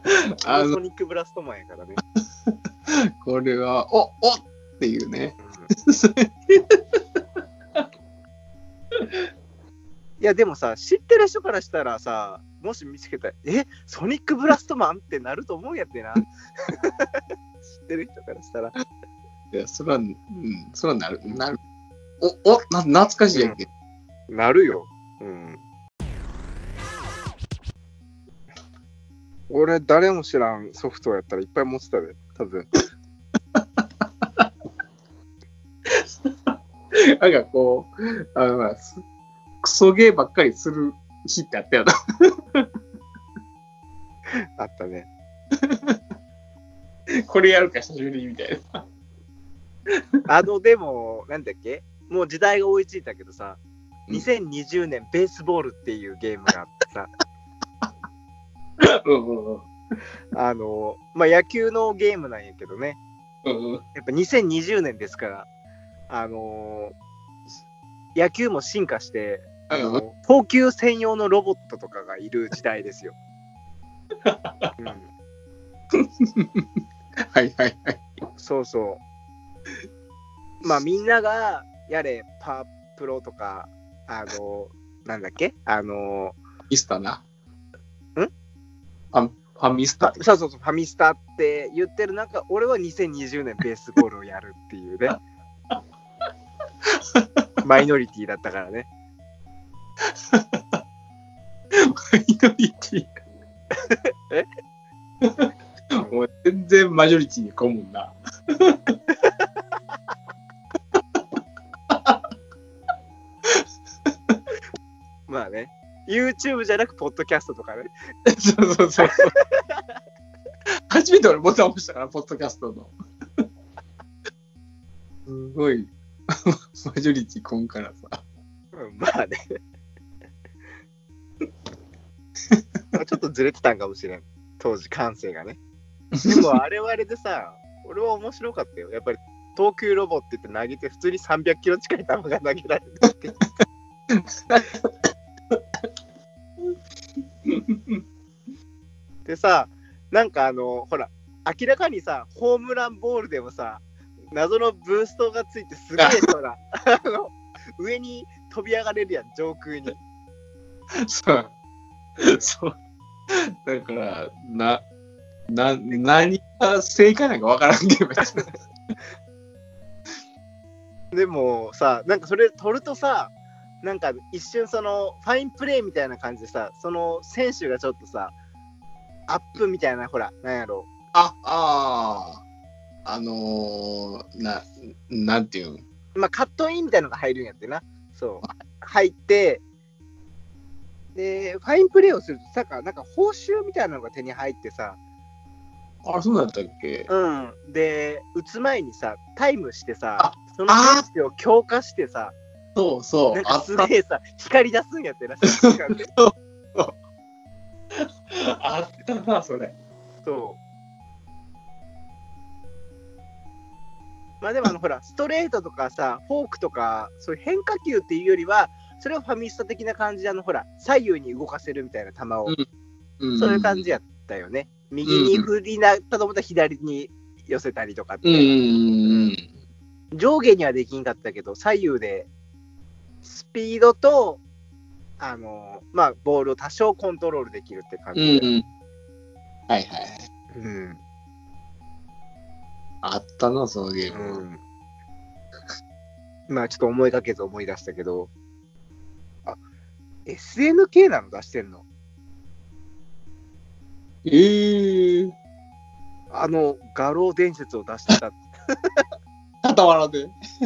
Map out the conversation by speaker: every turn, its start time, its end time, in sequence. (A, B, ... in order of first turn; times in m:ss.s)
0:00.4-0:00.8 A
0:00.4-0:02.0 B
0:02.5-0:07.2 A
0:05.4-0:05.7 B
0:09.0-0:09.2 A
0:10.2-0:17.2 B
0:17.8-0:18.7 B
0:19.5-0:21.6 A
0:22.2-0:23.7 A
0:24.3-0:25.6 B
0:29.5-0:32.7 B
0:33.5-0:34.5 A
0:35.9-0:36.6 A
0:37.2-0:39.0 A
0:39.6-0:42.7 A
0:44.4-0:45.1 B
0:45.6-0:46.0 A
0:47.2-0:48.8 A
0:50.3-0:53.6 B
0:54.1-0:57.1 B
0:58.8-0:59.7 A
1:00.3-1:03.0 B
1:03.4-1:03.8 A
1:03.9-1:05.5 B
1:06.1-1:06.9 B
1:08.1-1:13.2 B
1:09.7-1:10.0 A
1:14.2-1:14.7 A
1:14.8-1:15.1 B
1:15.9-1:16.7 A
1:17.3-1:18.0 A
1:18.4-1:19.0 B
1:20.6-1:26.4 B
1:26.7-1:27.2 A
1:29.1-1:30.2 A
1:30.0-1:35.2 B
1:37.1-1:37.4 A
1:37.6-1:38.9 B
1:40.1-1:40.8 A
1:41.7-1:43.1 A
1:45.2-1:49.0 A
1:50.9-1:51.2 A
1:51.9-1:52.2 A
1:53.4-1:54.4 A
1:55.3-1:57.9 B
1:58.2-1:59.4 A
1:59.0-1:59.8 B
2:00.9-2:03.4 A
2:05.2-2:08.2 A
2:08.7-2:09.4 B
2:12.9-2:15.6 B
2:16.1-2:16.4 A
2:16.2-2:23.4 B
2:24.1-2:25.6 A
2:27.4-2:28.0 A
2:29.2-2:40.0 B
2:41.0-2:41.5 A
2:42.2-2:42.7 A
2:43.3-2:44.8 A
2:45.5-2:48.5 A
2:51.1-2:58.3 B
2:59.3-3:00.9 B
3:01.1-3:02.4 A
3:03.0-3:05.8 A
3:06.1-3:09.6 B
3:11.1-3:15.0 B
3:16.0-3:17.1 A
3:17.1-3:22.3 B
3:20.2-3:21.0 A
3:22.7-3:23.9 A
3:23.3-3:26.1 B
3:25.7-3:26.9 A
3:28.3-3:29.7 A
3:30.2-3:30.6 B
3:34.4-3:42.6 B
3:43.2-3:43.9 A
3:43.4-3:49.3 B
3:45.0-3:45.5 A
3:48.2-3:49.5 A
3:50.1-3:52.3 B
3:53.2-3:54.4 B
3:55.2-3:58.5 B
3:58.1-3:58.6 A
3:59.7-4:00.3 A
4:00.5-4:01.0 B
4:03.0-4:04.4 A
4:04.1-4:04.6 B
4:06.5-4:08.3 B
4:10.2-4:11.8 B
4:14.2-4:15.3 A
4:16.3-4:19.0 B
4:19.6-4:20.3 A